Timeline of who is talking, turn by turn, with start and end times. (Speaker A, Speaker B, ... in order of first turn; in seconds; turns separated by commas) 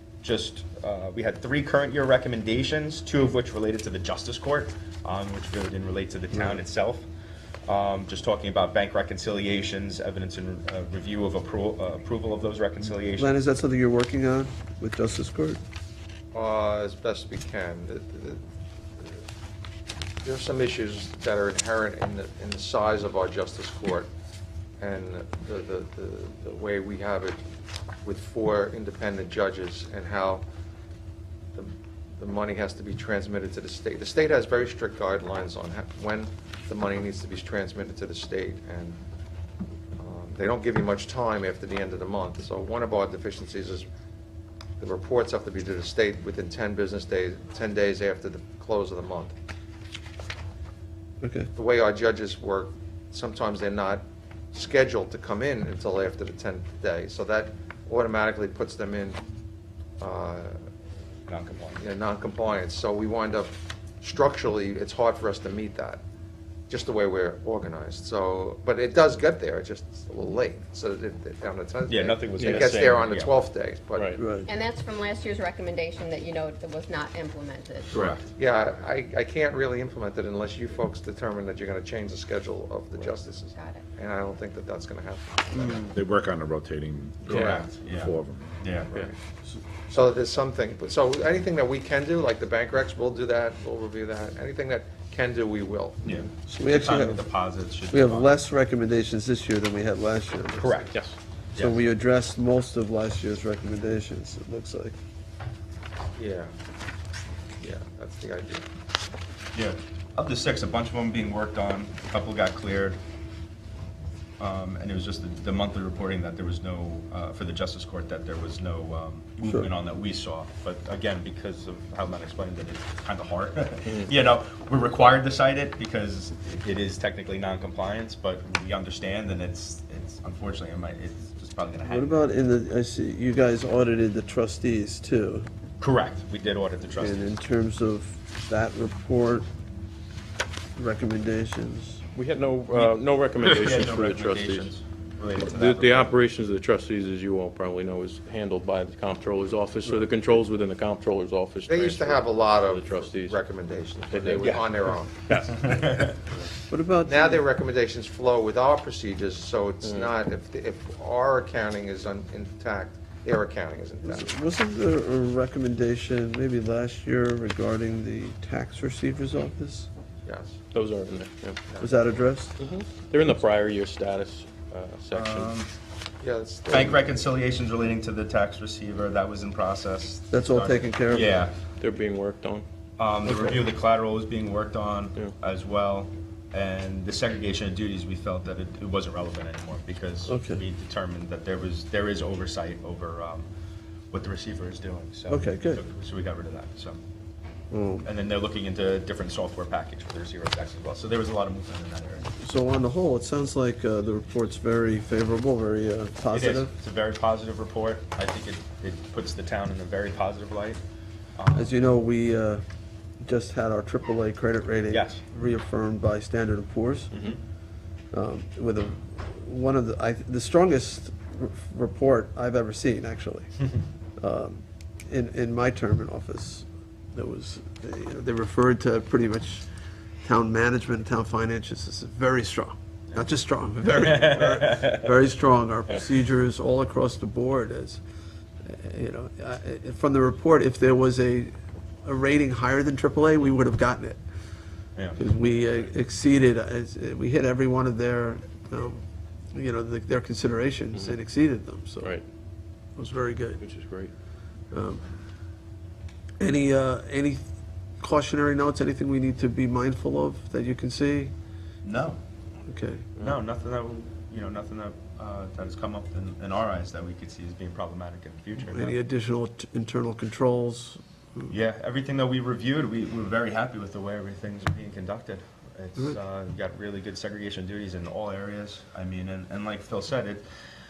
Speaker A: 0.2-7.1, Speaker B: 6.3-6.6, Speaker A: 7.7-13.3, Speaker B: 13.2-15.6, Speaker C: 16.3-18.4, Speaker C: 20.2-24.1, Speaker C: 24.8-27.4, Speaker C: 28.1-30.4, Speaker C: 31.6-39.0, Speaker C: 40.0-43.9, Speaker C: 44.8-49.3, Speaker B: 51.2-51.5, Speaker C: 51.6-59.2, Speaker C: 60.0-60.6, Speaker A: 61.3-61.8, Speaker C: 61.8-66.0, Speaker C: 66.7-74.2, Speaker A: 71.9-73.4, Speaker D: 72.4-72.8, Speaker D: 73.9-74.2, Speaker B: 74.2-74.5, Speaker E: 74.5-78.2, Speaker D: 77.9-78.2, Speaker A: 77.9-78.2, Speaker C: 78.4-85.9, Speaker E: 83.5-83.9, Speaker B: 85.5-85.9, Speaker F: 85.9-88.6, Speaker C: 87.3-87.7, Speaker D: 87.3-87.6, Speaker A: 87.3-89.1, Speaker C: 89.9-96.0, Speaker A: 96.0-98.3, Speaker B: 96.5-97.2, Speaker B: 97.9-100.9, Speaker A: 100.6-100.9, Speaker B: 101.6-105.0, Speaker C: 106.2-106.5, Speaker C: 107.6-108.6, Speaker A: 109.5-113.0, Speaker A: 114.4-132.3, Speaker B: 119.4-119.7, Speaker B: 131.8-135.5, Speaker A: 135.8-137.3, Speaker B: 137.0-139.5, Speaker B: 140.8-142.0, Speaker D: 142.1-144.7, Speaker A: 142.7-146.1, Speaker D: 145.4-153.4, Speaker C: 151.7-155.1, Speaker D: 154.1-156.4, Speaker A: 154.4-154.7, Speaker A: 155.5-156.3, Speaker B: 156.7-157.4, Speaker C: 157.1-164.3, Speaker D: 159.8-160.1, Speaker B: 164.0-169.9, Speaker C: 170.3-170.6, Speaker D: 170.7-171.6, Speaker B: 171.8-172.6, Speaker D: 172.6-175.5, Speaker A: 175.1-175.7, Speaker C: 176.2-177.1, Speaker A: 176.7-181.6, Speaker B: 180.3-181.3, Speaker D: 181.8-182.7, Speaker A: 183.0-193.5, Speaker B: 183.2-183.6, Speaker B: 190.3-190.6, Speaker A: 194.1-197.0, Speaker B: 195.3-195.8, Speaker B: 197.7-198.1, Speaker A: 198.0-202.3, Speaker B: 202.4-206.7, Speaker A: 206.3-210.8, Speaker A: 211.4-211.8, Speaker B: 211.5-212.6, Speaker B: 213.2-217.1, Speaker A: 214.9-215.2, Speaker A: 217.1-217.4, Speaker B: 218.1-223.5, Speaker B: 224.2-229.7, Speaker B: 230.2-238.0, Speaker A: 233.9-235.1, Speaker B: 238.7-241.5, Speaker B: 242.1-244.2, Speaker B: 245.2-252.2, Speaker B: 253.0-253.6, Speaker D: 253.6-254.1, Speaker B: 254.7-255.0, Speaker B: 256.4-257.4, Speaker B: 258.0-261.3, Speaker A: 261.8-262.2, Speaker B: 262.7-263.1, Speaker A: 263.2-269.0, Speaker B: 268.6-271.5, Speaker A: 271.5-280.4